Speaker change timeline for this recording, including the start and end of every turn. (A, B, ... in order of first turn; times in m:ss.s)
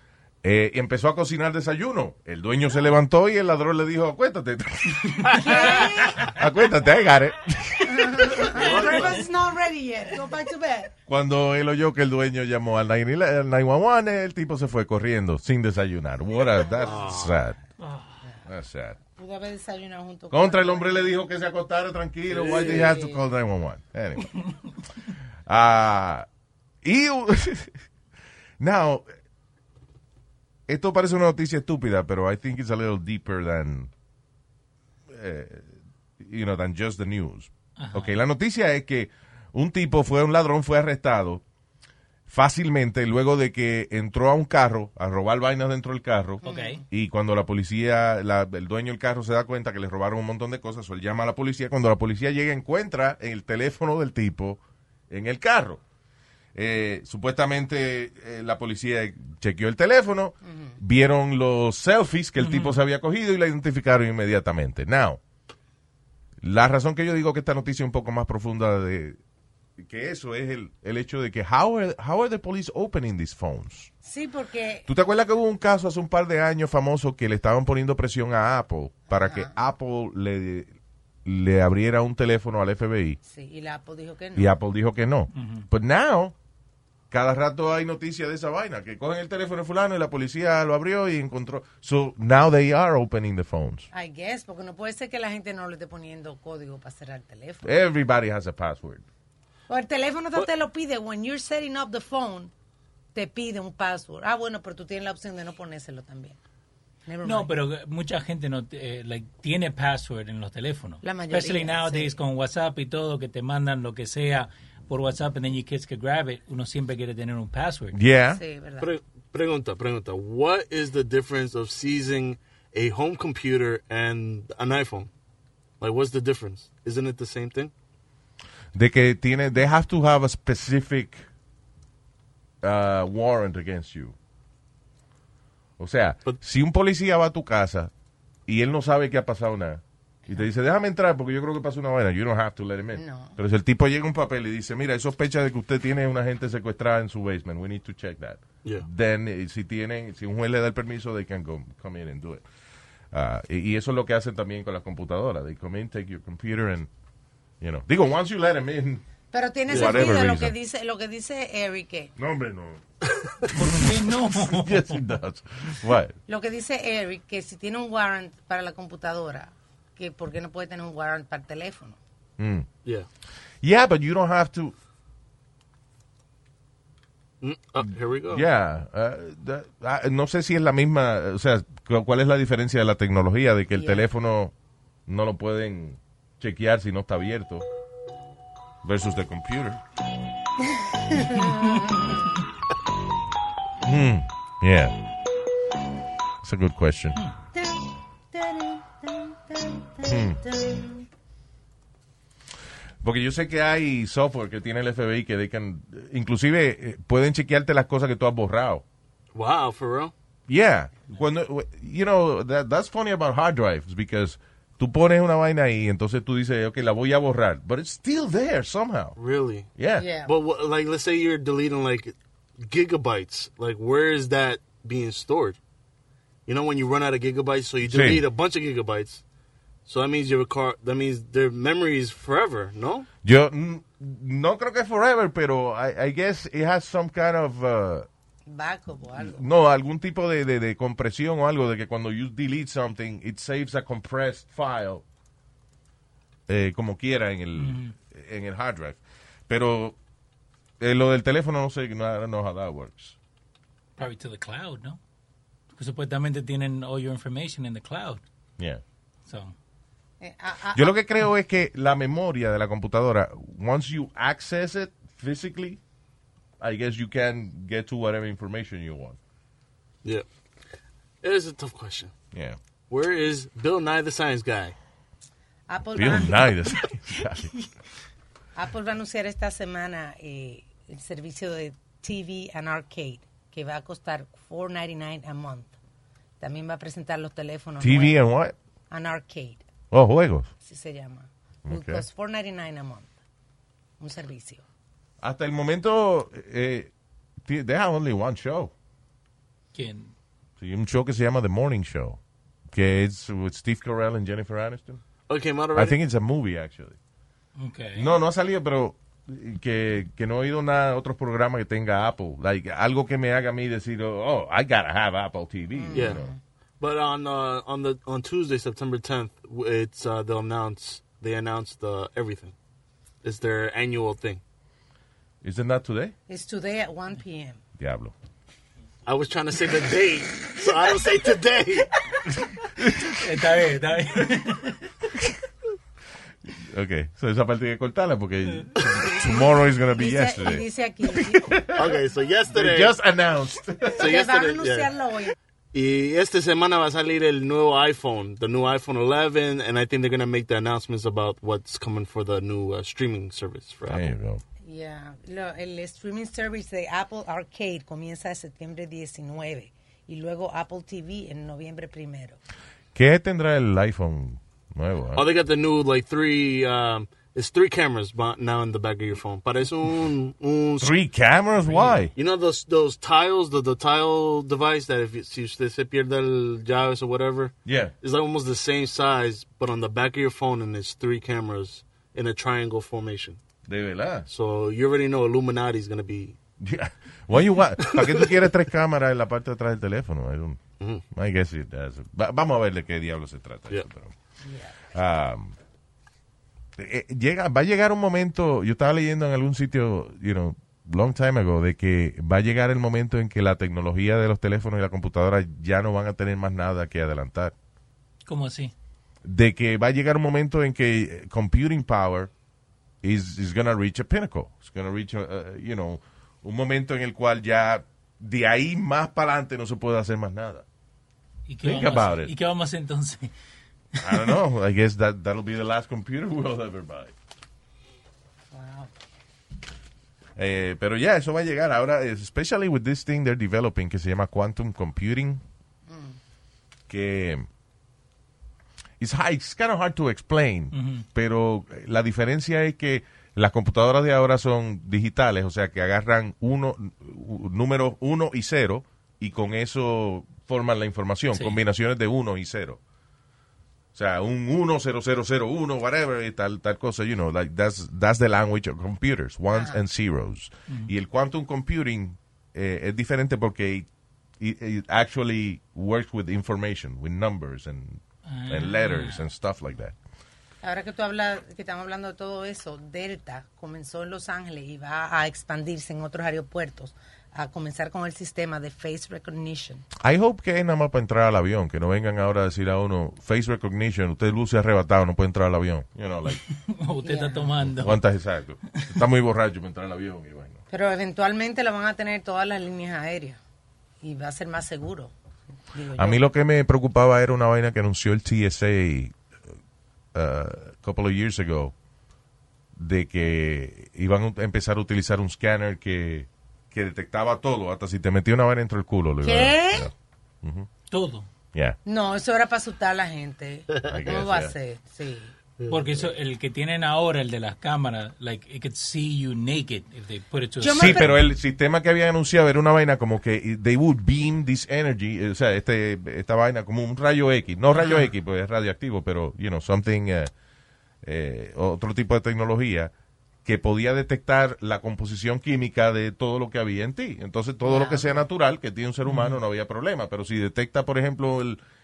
0:00.4-0:08.7 A
0:05.3-0:06.3 B
0:07.9-0:10.9 B
0:08.6-0:09.2 C
0:11.1-0:17.6 A
0:16.8-0:17.4 C
0:17.8-0:18.1 D
0:18.5-0:19.0 A
0:19.1-0:21.1 B
0:20.3-0:24.3 A
0:22.3-0:23.0 C
0:22.6-0:23.2 B
0:25.5-0:26.3 A
0:26.8-0:27.8 A
0:28.6-0:29.0 A
0:30.7-0:33.9 A
0:35.1-0:41.4 A
0:37.8-0:38.2 D
0:42.3-0:55.8 A
0:46.4-0:46.8 B
0:46.4-0:46.8 D
0:56.6-1:05.2 A
1:00.4-1:00.8 B
1:02.4-1:02.8 D
1:06.4-1:09.2 A
1:09.8-1:13.9 A
1:14.0-1:14.9 B
1:14.9-1:20.7 A
1:19.1-1:19.5 B
1:21.2-1:23.2 A
1:23.2-1:24.5 B
1:24.4-1:26.3 A
1:25.3-1:25.7 D
1:27.1-1:33.9 A
1:33.9-1:37.7 B
1:37.6-1:39.0 A
1:39.7-1:42.5 B
1:43.1-1:46.4 B
1:47.1-1:47.5 B
1:47.2-1:58.0 D
1:51.0-1:52.2 B
1:57.9-1:58.4 A
1:58.4-1:58.9 B
1:58.8-2:05.1 C
2:05.8-2:07.7 C
2:08.7-2:11.2 A
2:12.6-2:14.2 A
2:15.8-2:17.9 A
2:18.5-2:32.4 A
2:23.0-2:23.4 B
2:33.1-2:36.9 A
2:37.6-2:39.0 A
2:39.3-2:42.1 B
2:39.7-2:40.5 A
2:39.7-2:40.2 C
2:42.2-2:42.8 A
2:43.5-2:45.0 D
2:43.6-2:43.9 A
2:44.5-2:46.2 A
2:46.3-2:52.0 B
2:52.4-2:52.7 A
2:53.6-2:54.8 A
2:57.4-2:58.4 C
2:57.8-3:04.5 A
3:03.8-3:04.0 B
3:05.1-3:07.6 A
3:08.8-3:09.8 A
3:11.1-3:12.3 B
3:13.8-3:15.0 A
3:16.4-3:17.2 A
3:17.6-3:17.8 B
3:18.3-3:21.0 B
3:20.0-3:20.4 A
3:23.0-3:28.8 A
3:29.3-3:30.1 C
3:30.5-3:39.2 A
3:39.2-3:45.6 C
3:39.8-3:40.1 A
3:40.0-3:40.3 B
3:46.5-3:49.2 C
3:47.8-3:48.2 A
3:49.9-3:53.1 C
3:53.2-3:58.1 A
3:58.5-3:59.4 B
3:59.2-4:05.0 A
4:06.5-4:10.0 A
4:07.6-4:07.9 D
4:10.8-4:13.2 A
4:14.0-4:15.0 D
4:15.7-4:18.2 D
4:19.3-4:19.5 D
4:20.2-4:20.9 B
4:20.8-4:25.8 A
4:26.6-4:29.2 A
4:31.2-4:32.1 C
4:32.3-4:32.6 A
4:32.9-4:34.8 C
4:35.7-4:36.5 B
4:36.0-4:37.5 A
4:38.6-4:45.7 B
4:46.4-4:48.2 B
4:47.8-4:48.6 A
4:48.9-4:49.6 B
4:49.9-4:50.5 A
4:50.6-4:53.1 B
4:51.7-4:52.0 A
4:54.0-4:54.6 B
4:55.2-4:56.9 A
4:57.4-4:58.7 A
4:59.7-5:00.1 D
5:00.6-5:02.2 A
5:02.7-5:05.0 A
5:05.3-5:06.0 C
5:05.7-5:07.0 A
5:07.6-5:08.1 D
5:08.0-5:16.3 A
5:15.8-5:16.4 B
5:15.9-5:16.2 C
5:16.8-5:22.5 C
5:23.2-5:24.4 C
5:25.4-5:26.2 A
5:26.3-5:27.6 B
5:27.8-5:28.1 A
5:29.1-5:31.9 C
5:32.8-5:33.2 A
5:33.2-5:34.8 D
5:36.6-5:42.0 A
5:40.0-5:41.5 B
5:41.8-5:42.9 C
5:42.5-5:44.0 A
5:44.0-5:44.9 C
5:44.0-5:45.4 B
5:45.7-5:54.1 C
5:53.9-5:54.4 A
5:54.6-6:02.4 B
6:03.0-6:05.3 A
6:05.2-6:10.9 C
6:10.8-6:12.1 A
6:11.7-6:12.0 D
6:12.2-6:23.4 C
6:17.6-6:17.9 A
6:23.7-6:24.3 A
6:24.3-6:26.4 C
6:26.6-6:30.6 A
6:27.9-6:28.2 C
6:31.1-6:34.1 A
6:34.4-6:34.8 B
6:34.9-6:35.6 A
6:36.8-6:47.5 A
6:48.3-6:48.7 D
6:49.2-6:52.3 A
6:53.0-7:00.6 A
7:01.5-7:03.3 D
7:01.6-7:02.3 A
7:04.0-7:04.3 D
7:04.0-7:07.1 A
7:08.5-7:08.9 B
7:10.4-7:15.4 A
7:15.9-7:16.2 B
7:16.9-7:17.5 A
7:19.0-7:32.8 A
7:20.7-7:21.0 D
7:34.0-7:43.9 A
7:39.5-7:39.8 B
7:44.4-7:49.9 A
7:48.3-7:49.2 D
7:50.6-7:59.8 B
8:00.0-8:06.4 A
8:06.8-8:08.0 D
8:07.0-8:07.5 B
8:07.7-8:10.6 A
8:10.7-8:13.4 B
8:14.0-8:15.1 B
8:15.7-8:16.2 B
8:16.0-8:19.1 A
8:20.1-8:21.7 A
8:22.8-8:30.7 A
8:29.2-8:29.9 B
8:30.9-8:31.3 D
8:31.9-8:35.3 B
8:33.8-8:34.5 A
8:35.6-8:36.0 C
8:35.7-8:41.2 D
8:40.6-8:41.2 B
8:40.7-8:50.3 A
8:51.0-8:52.9 A
8:53.4-9:01.6 A
8:57.6-8:58.1 B
8:59.0-8:59.4 D